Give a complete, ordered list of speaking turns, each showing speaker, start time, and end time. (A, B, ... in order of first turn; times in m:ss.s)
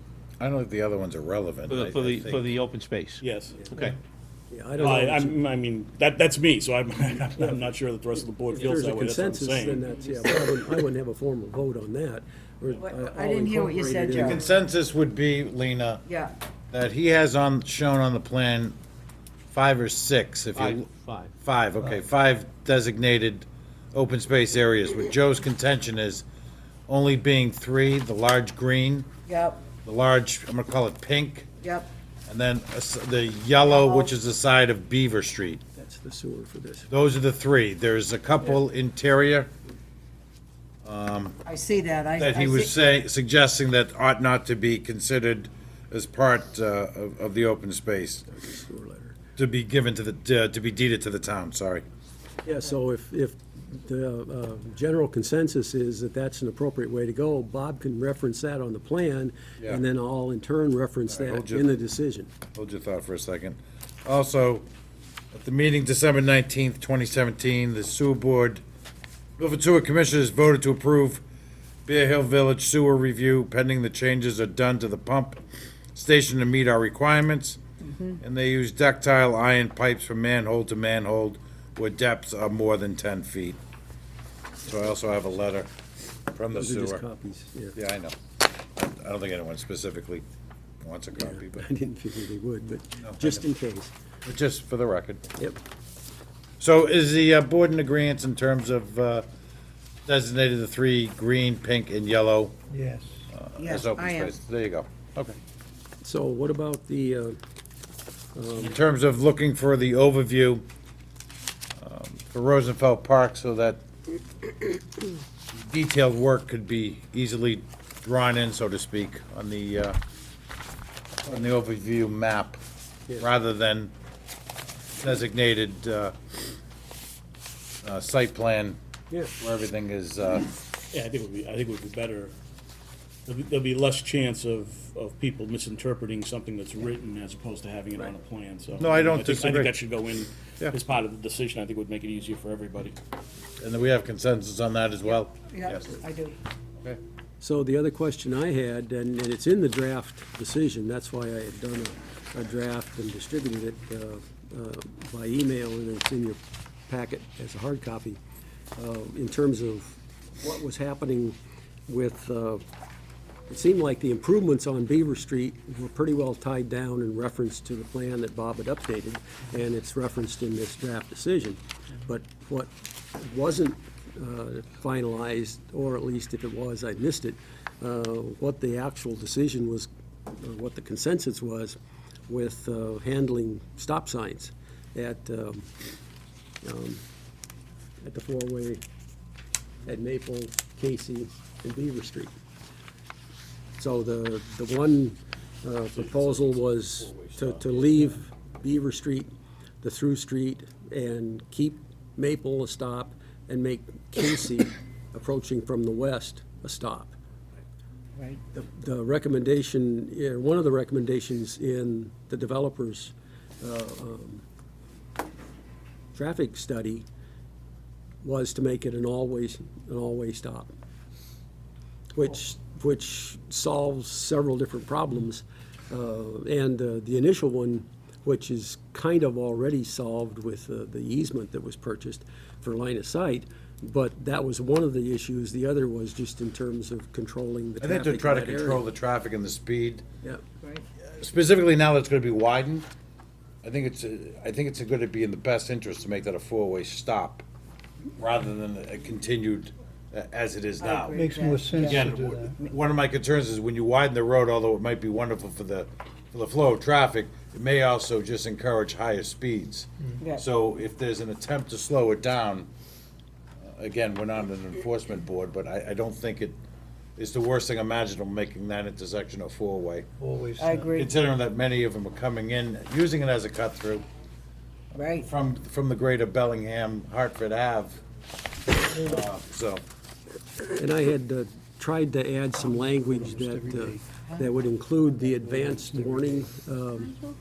0:00.4-0:02.5 A
0:01.7-0:03.2 B
0:03.2-0:03.8 C
0:04.5-0:05.4 D
0:04.8-0:09.8 C
0:08.5-0:14.4 D
0:12.8-0:14.5 E
0:14.2-0:16.0 A
0:16.0-0:16.3 E
0:16.7-0:18.8 A
0:19.5-0:20.9 A
0:20.5-0:21.3 B
0:21.4-0:26.2 A
0:26.9-0:29.1 A
0:29.3-0:29.7 E
0:29.8-0:31.6 A
0:31.6-0:31.9 E
0:32.3-0:35.6 A
0:33.7-0:34.1 E
0:35.8-0:36.9 D
0:36.9-0:39.5 A
0:40.8-0:41.4 A
0:41.4-0:42.7 E
0:42.2-0:48.3 A
0:48.3-0:49.1 D
0:49.4-0:51.8 A
0:52.4-1:02.3 D
1:01.1-1:01.7 A
1:02.6-1:04.7 A
1:05.3-1:08.6 A
1:09.4-1:11.2 A
1:11.9-1:15.4 A
1:15.9-1:17.6 A
1:17.8-1:18.2 E
1:18.2-1:23.6 A
1:24.6-1:25.7 A
1:26.3-1:27.0 A
1:26.5-1:27.8 D
1:27.8-1:28.1 A
1:28.8-1:30.2 A
1:30.8-1:31.6 A
1:31.2-1:33.9 D
1:33.0-1:33.4 A
1:34.2-1:35.2 A
1:36.6-1:39.3 A
1:40.1-1:42.6 A
1:42.7-1:43.2 F
1:43.3-1:45.4 A
1:43.6-1:44.3 E
1:46.0-1:47.4 D
1:48.3-1:48.8 D
1:48.6-1:50.6 A
1:51.8-1:53.8 A
1:55.6-2:00.0 A
2:01.2-2:02.6 A
2:03.2-2:03.9 A
2:05.0-2:06.1 A
2:07.8-2:08.8 A
2:09.4-2:10.5 A
2:10.9-2:12.3 C
2:13.3-2:23.0 C
2:18.8-2:19.7 A
2:23.6-2:26.0 A
2:25.4-2:26.4 E
2:27.4-2:38.2 D
2:38.8-2:42.6 D
2:43.5-3:01.8 D
3:02.3-3:05.7 D
3:06.6-3:07.0 D
3:08.0-3:08.8 D
3:09.9-3:12.3 D
3:13.8-3:27.2 D
3:15.9-3:18.0 C
3:28.2-3:28.4 E
3:28.5-3:34.4 D
3:36.2-3:37.0 D
3:38.2-3:40.7 D
3:42.1-3:58.9 D
3:57.8-4:00.0 A
4:01.2-4:02.9 A
4:03.6-4:07.4 A
4:08.2-4:11.2 A
4:10.8-4:12.0 E
4:11.1-4:12.6 F
4:11.8-4:22.7 A
4:20.2-4:20.4 E
4:23.6-4:26.6 A
4:27.2-4:30.1 A
4:30.2-4:31.0 F
4:30.6-4:31.1 E
4:30.9-4:34.0 A
4:34.9-4:38.0 A
4:34.9-4:35.3 E
4:38.9-4:39.8 A
4:40.8-4:47.2 D
4:42.8-4:44.0 F
4:45.5-4:46.4 F